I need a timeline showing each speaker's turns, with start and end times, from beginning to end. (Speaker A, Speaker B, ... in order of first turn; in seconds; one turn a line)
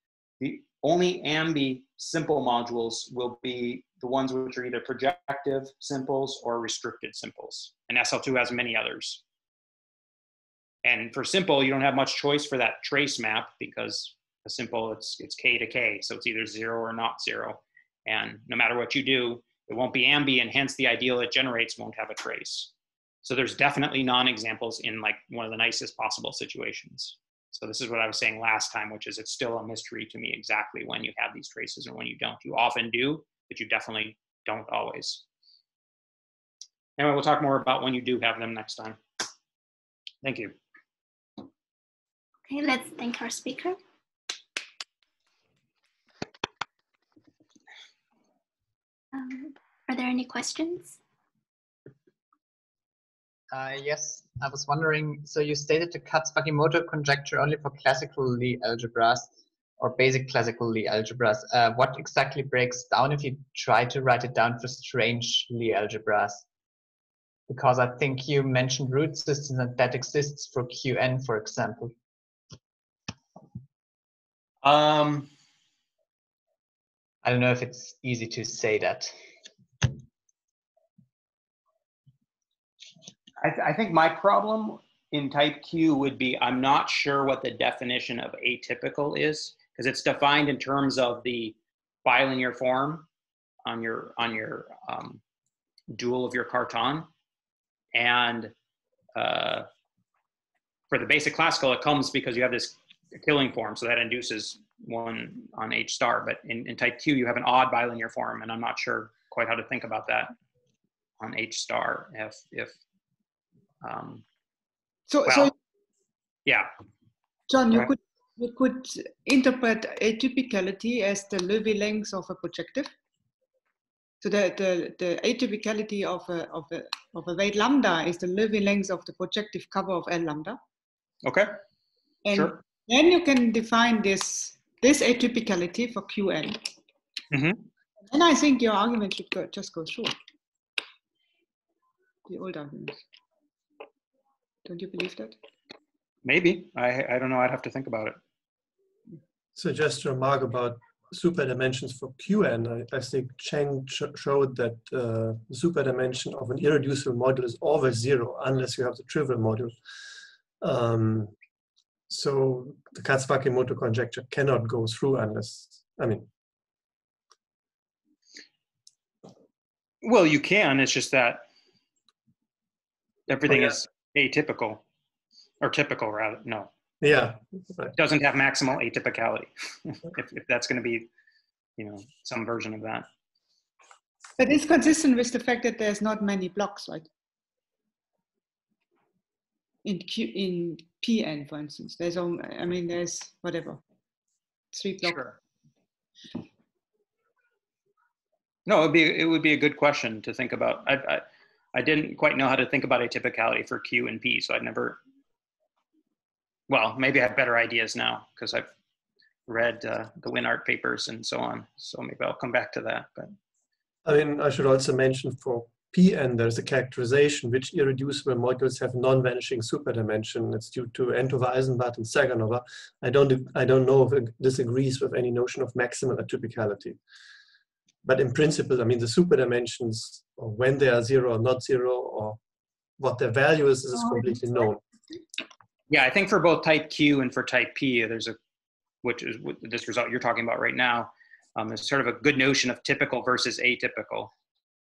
Speaker A: 0.4-9.2
Speaker A: 10.8-22.7
Speaker A: 23.2-35.2
Speaker A: 37.0-39.0
Speaker A: 40.2-40.5
Speaker B: 42.5-43.8
Speaker B: 49.1-51.0
Speaker C: 53.5-66.5
Speaker C: 67.5-72.0
Speaker A: 74.6-75.3
Speaker C: 77.2-79.2
Speaker A: 83.4-93.1
Speaker A: 93.7-95.2
Speaker A: 95.9-97.1
Speaker A: 97.9-98.5
Speaker A: 99.2-99.7
Speaker A: 100.9-110.3
Speaker A: 111.2-112.8
Speaker A: 113.8-114.2
Speaker D: 115.1-115.5
Speaker A: 115.3-115.5
Speaker A: 116.5-116.7
Speaker D: 117.5-122.9
Speaker D: 124.2-130.6
Speaker A: 131.2-131.6
Speaker D: 132.2-136.6
Speaker A: 132.3-132.6
Speaker A: 137.3-137.7
Speaker D: 138.1-140.1
Speaker D: 142.3-143.0
Speaker D: 144.7-145.4
Speaker A: 146.2-148.2
Speaker E: 149.6-159.8
Speaker E: 160.6-161.3
Speaker E: 162.1-166.3
Speaker A: 170.0-171.5
Speaker A: 173.3-174.8
Speaker A: 175.6-176.7
Speaker E: 177.0-177.9
Speaker A: 178.0-181.1
Speaker A: 181.8-183.1
Speaker D: 184.4-187.1
Speaker D: 189.8-193.8
Speaker D: 194.7-195.2
Speaker A: 195.0-195.4
Speaker A: 198.7-205.0
Speaker A: 206.7-208.7
Speaker A: 209.5-213.3
Speaker E: 214.1-227.0
Speaker E: 228.0-232.4
Speaker E: 233.0-234.8
Speaker D: 234.1-234.4
Speaker A: 235.9-238.4
Speaker A: 239.0-244.3